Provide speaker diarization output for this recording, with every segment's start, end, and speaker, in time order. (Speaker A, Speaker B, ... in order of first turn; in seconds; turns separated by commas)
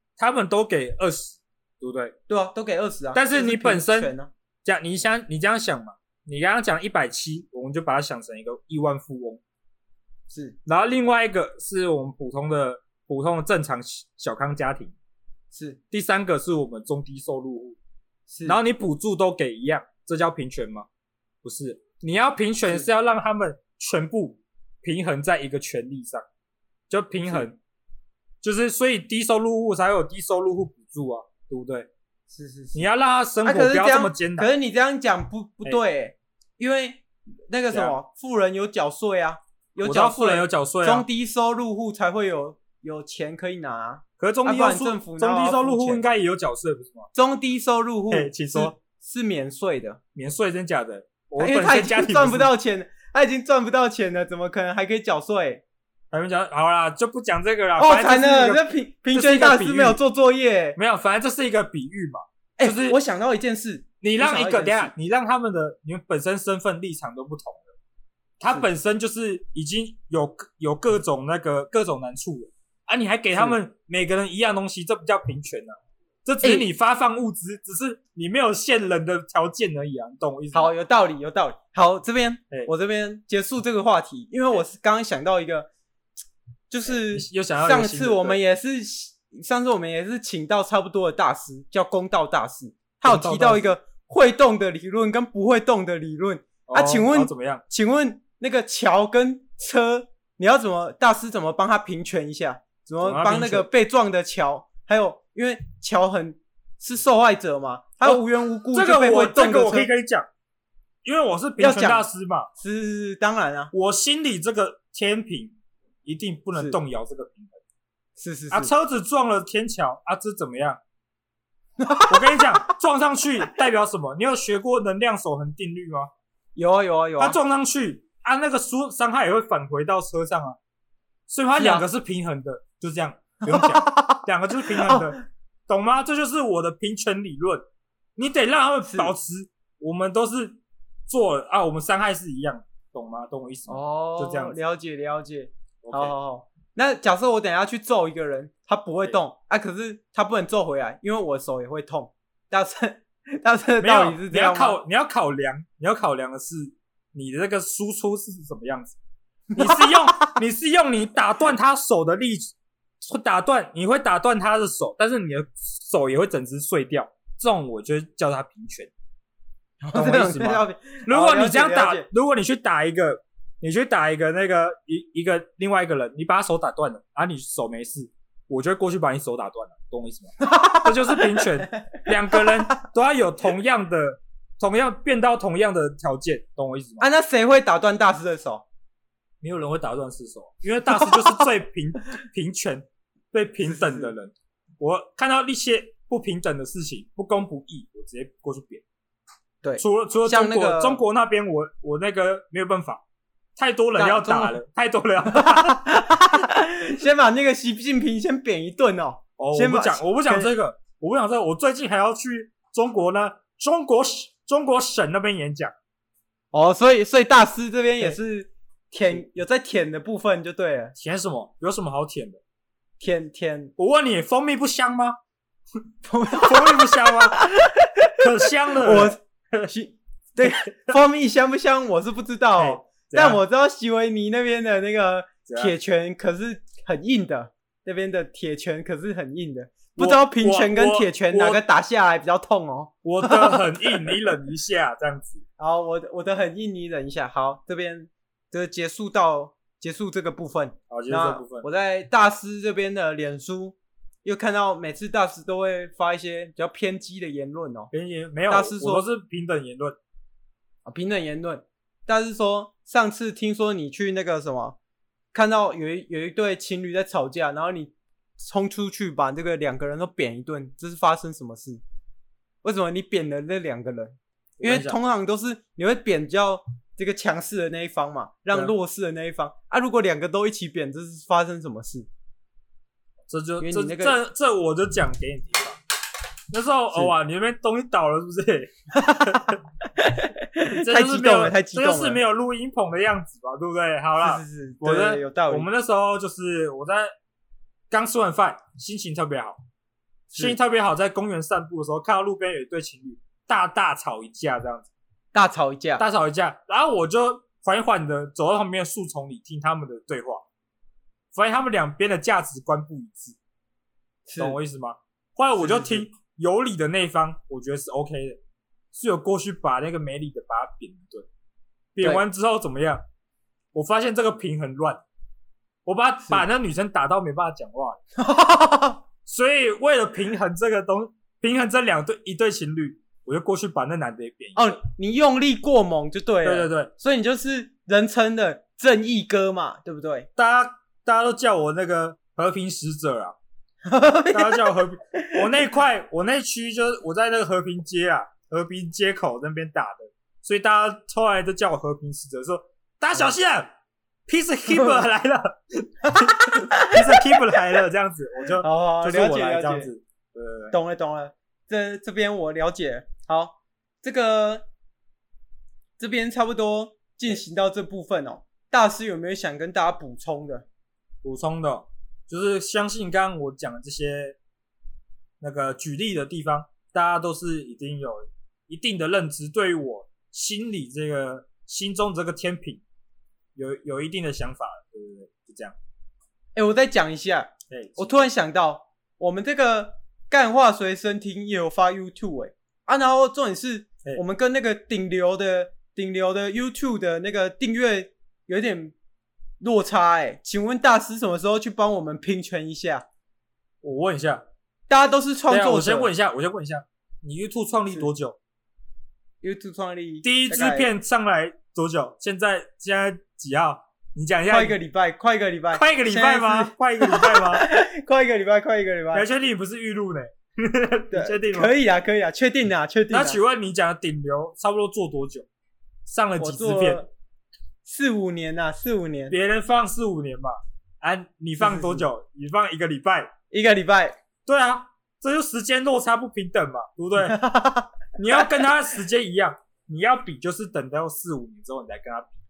Speaker A: 0.2-2.1, Speaker B: 2.3-4.3, Speaker A: 3.1-4.1, Speaker A: 4.6-9.4, Speaker B: 10.3-10.6, Speaker A: 10.7-14.9, Speaker B: 15.5-15.8, Speaker A: 15.9-17.8, Speaker B: 18.3-18.6, Speaker A: 18.4-20.9, Speaker A: 21.4-26.2, Speaker A: 26.9-27.6, Speaker A: 28.4-31.9, Speaker B: 32.3-32.9, Speaker A: 32.7-34.5, Speaker B: 33.4-46.0, Speaker A: 37.7-38.0, Speaker A: 39.8-41.0, Speaker A: 44.2-47.1, Speaker B: 47.1-50.0, Speaker A: 48.1-48.7, Speaker A: 50.1-52.5, Speaker B: 51.4-55.6, Speaker A: 56.1-60.0, Speaker B: 57.8-60.8, Speaker A: 60.8-63.0, Speaker B: 62.6-64.9, Speaker A: 64.0-67.7, Speaker A: 68.4-80.7, Speaker B: 76.4-76.7, Speaker B: 80.5-85.7, Speaker B: 86.7-109.9, Speaker A: 86.9-88.4, Speaker A: 93.0-93.7, Speaker A: 96.7-97.6, Speaker A: 103.0-103.7, Speaker A: 108.0-110.3, Speaker A: 111.0-112.5, Speaker B: 111.6-113.7, Speaker A: 113.7-117.6, Speaker B: 118.2-118.7, Speaker A: 118.5-120.8, Speaker B: 121.8-122.7, Speaker A: 122.1-126.1, Speaker B: 126.5-127.4, Speaker A: 127.2-130.6, Speaker A: 131.3-137.6, Speaker B: 131.6-131.8, Speaker B: 133.5-135.1, Speaker A: 138.2-144.6, Speaker B: 138.8-139.1, Speaker B: 143.7-154.8, Speaker A: 145.8-146.1, Speaker A: 153.8-159.0, Speaker B: 159.5-160.3, Speaker A: 159.6-168.9, Speaker B: 169.8-172.1, Speaker A: 169.9-187.0, Speaker B: 180.4-182.5, Speaker B: 187.0-188.6, Speaker A: 189.4-198.8, Speaker B: 193.6-194.1, Speaker B: 199.6-201.0, Speaker A: 199.8-203.0, Speaker A: 203.6-206.0, Speaker B: 203.9-204.6, Speaker B: 205.3-210.5, Speaker A: 209.4-215.7, Speaker B: 216.5-220.9, Speaker A: 220.9-222.4, Speaker B: 223.0-223.7, Speaker A: 223.8-225.2, Speaker B: 226.0-228.2, Speaker A: 226.3-227.4, Speaker A: 228.2-229.2, Speaker B: 228.7-244.1, Speaker A: 230.4-230.9, Speaker A: 232.6-233.4, Speaker A: 235.5-235.7, Speaker A: 240.0-241.6, Speaker A: 243.0-245.4, Speaker B: 245.6-257.9, Speaker A: 250.9-251.7, Speaker A: 257.9-260.0, Speaker B: 258.5-259.0, Speaker B: 260.8-264.8, Speaker B: 265.3-271.8, Speaker B: 272.6-282.1, Speaker A: 274.6-274.9, Speaker A: 283.3-285.8, Speaker B: 283.6-284.2, Speaker A: 286.5-289.6, Speaker B: 289.1-292.2, Speaker A: 290.6-297.1, Speaker B: 294.2-295.7, Speaker A: 297.9-299.6, Speaker A: 300.3-304.9, Speaker B: 305.3-306.0, Speaker A: 306.0-310.4, Speaker A: 311.3-313.4, Speaker B: 314.2-314.6, Speaker A: 314.4-318.4, Speaker B: 315.6-316.0, Speaker A: 318.9-321.2, Speaker A: 321.9-323.0, Speaker A: 323.7-325.0, Speaker A: 325.8-328.0, Speaker B: 328.2-329.0, Speaker A: 329.2-334.8, Speaker B: 334.5-340.3, Speaker A: 336.4-336.9, Speaker A: 340.4-343.4, Speaker B: 343.9-345.4, Speaker A: 344.3-353.7, Speaker A: 354.3-360.7, Speaker B: 356.1-357.0, Speaker B: 358.6-359.9, Speaker B: 360.7-364.6, Speaker B: 366.0-370.6, Speaker A: 371.2-374.4, Speaker A: 375.4-382.8, Speaker A: 383.6-385.7, Speaker B: 386.5-398.9, Speaker A: 387.7-388.3, Speaker B: 399.6-403.0, Speaker A: 403.8-404.4, Speaker B: 404.9-406.1, Speaker A: 405.5-408.4, Speaker B: 409.4-410.9, Speaker A: 410.2-414.8, Speaker B: 414.5-419.3, Speaker A: 415.7-417.6, Speaker A: 419.1-421.7, Speaker B: 421.1-423.4, Speaker A: 423.1-425.4, Speaker A: 426.1-427.0, Speaker B: 426.4-427.1, Speaker B: 427.8-429.3, Speaker A: 429.3-433.3, Speaker B: 431.6-432.1, Speaker B: 433.5-434.1, Speaker A: 434.4-437.4, Speaker B: 437.2-437.9, Speaker A: 438.1-442.4